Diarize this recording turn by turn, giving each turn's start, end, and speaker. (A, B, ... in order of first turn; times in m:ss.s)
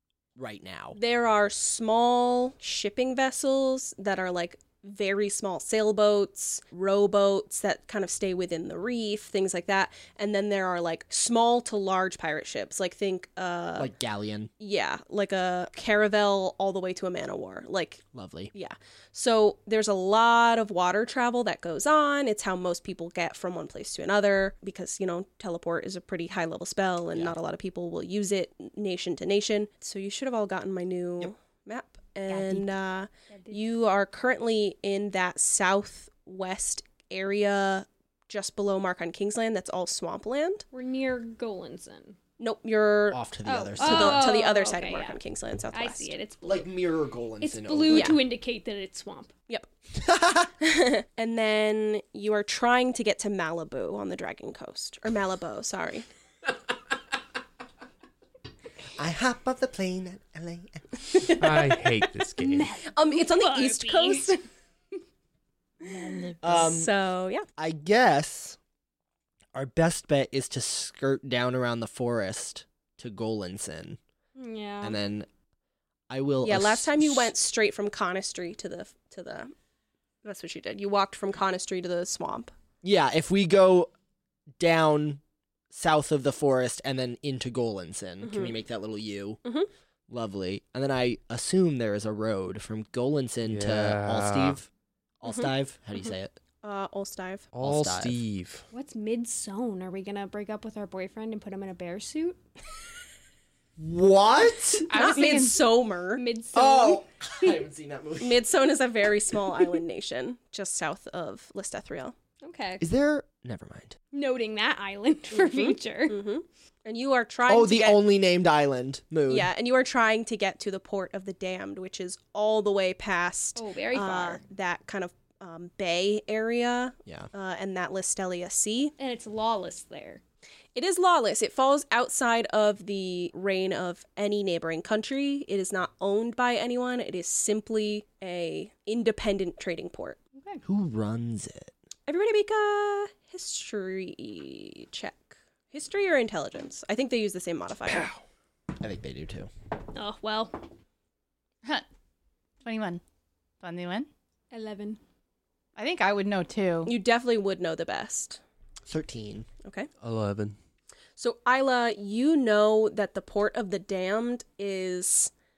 0:00.4-0:01.0 A
0:00.9-0:13.9 B
0:13.8-0:14.5 A
0:14.6-0:18.0 B
0:18.1-0:18.5 A
0:18.5-0:40.6 B
0:32.3-0:32.7 C
0:33.3-0:33.6 D
0:40.7-0:42.2 D
0:42.4-0:43.2 B
0:43.1-0:44.3 A
0:43.4-0:45.2 D
0:43.8-0:46.1 B
0:45.7-0:46.7 D
0:46.4-0:48.2 A
0:47.4-0:49.3 D
0:47.9-0:48.2 B
0:50.0-0:50.5 A
0:50.6-0:56.1 B
0:59.0-1:01.0 A
1:01.4-1:02.7 E
1:02.4-1:04.3 D
1:02.8-1:04.4 B
1:05.8-1:06.7 C
1:06.4-1:06.9 A
1:06.5-1:07.4 B
1:07.6-1:08.6 A
1:09.5-1:14.0 A
1:14.4-1:15.0 D
1:14.8-1:15.3 A
1:16.1-1:17.3 A
1:16.4-1:19.5 B
1:20.2-1:22.5 B
1:22.8-1:23.9 A
1:24.6-1:29.4 A
1:28.2-1:28.5 B
1:30.1-1:34.7 A
1:33.5-1:34.6 E
1:35.2-1:36.4 A
1:36.6-1:37.5 B
1:37.5-1:38.6 E
1:37.6-1:38.2 A
1:38.7-1:42.4 D
1:43.8-1:44.9 A
1:44.7-1:46.2 B
1:44.9-1:45.6 C
1:46.1-1:47.6 D
1:46.5-1:48.4 A
1:48.2-1:52.1 B
1:52.4-1:52.8 D
1:52.8-1:54.0 A
1:54.1-1:56.2 D
1:55.3-1:58.0 B
1:57.5-1:59.5 A
1:59.3-2:08.9 B
2:03.6-2:04.4 D
2:09.0-2:10.2 D
2:10.7-2:20.2 B
2:20.4-2:20.6 D
2:20.6-2:21.7 A
2:22.1-2:28.1 B
2:28.8-2:29.5 A
2:29.9-2:30.6 D
2:32.6-2:33.0 C
2:33.6-2:34.1 C
2:34.5-2:35.0 D
2:35.8-2:36.9 C
2:36.8-2:38.4 B
2:38.9-2:39.5 A
2:39.6-2:39.9 B
2:40.0-2:40.6 E
2:41.2-2:45.3 B